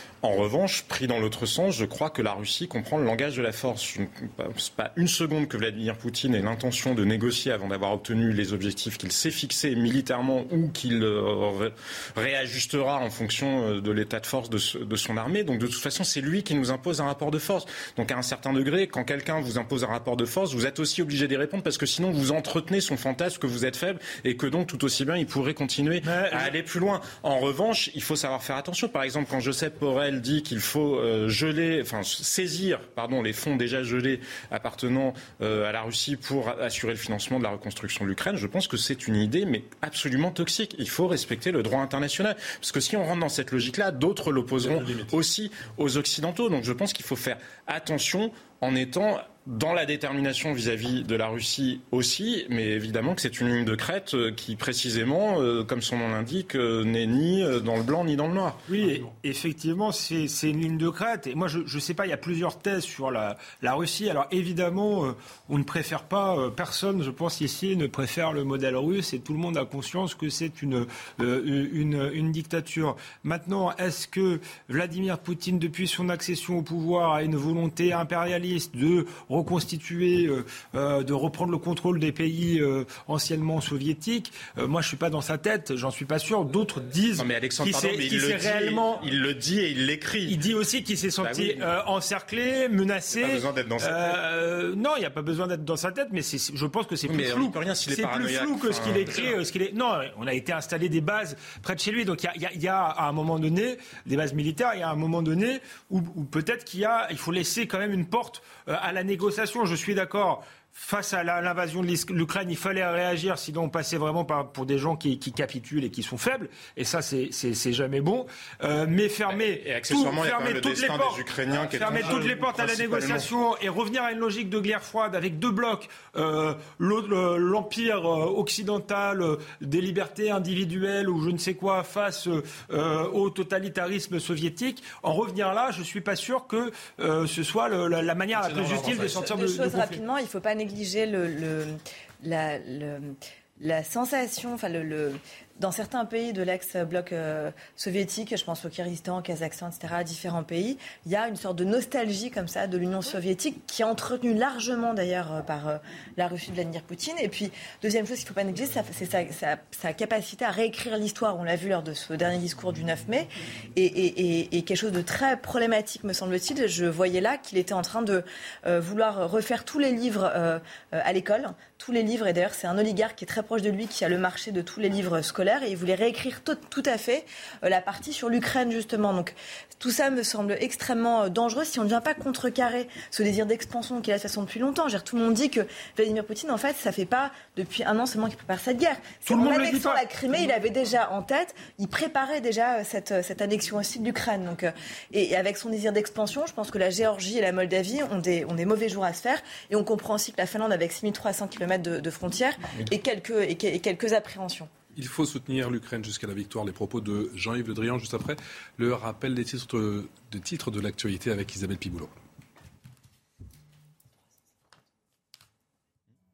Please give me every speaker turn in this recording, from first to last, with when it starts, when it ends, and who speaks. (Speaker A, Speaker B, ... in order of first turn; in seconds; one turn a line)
Speaker A: 0.2-58.6
Speaker B: 26.0-26.5
Speaker C: 44.6-45.2
Speaker B: 58.7-89.1
Speaker C: 58.8-59.1
Speaker A: 87.2-90.4
Speaker B: 90.3-140.0
Speaker A: 91.2-91.7
Speaker A: 93.2-94.1
Speaker A: 97.1-99.4
Speaker A: 119.3-123.3
Speaker C: 138.3-139.3
Speaker D: 139.2-204.7
Speaker B: 189.3-190.0
Speaker C: 204.9-212.1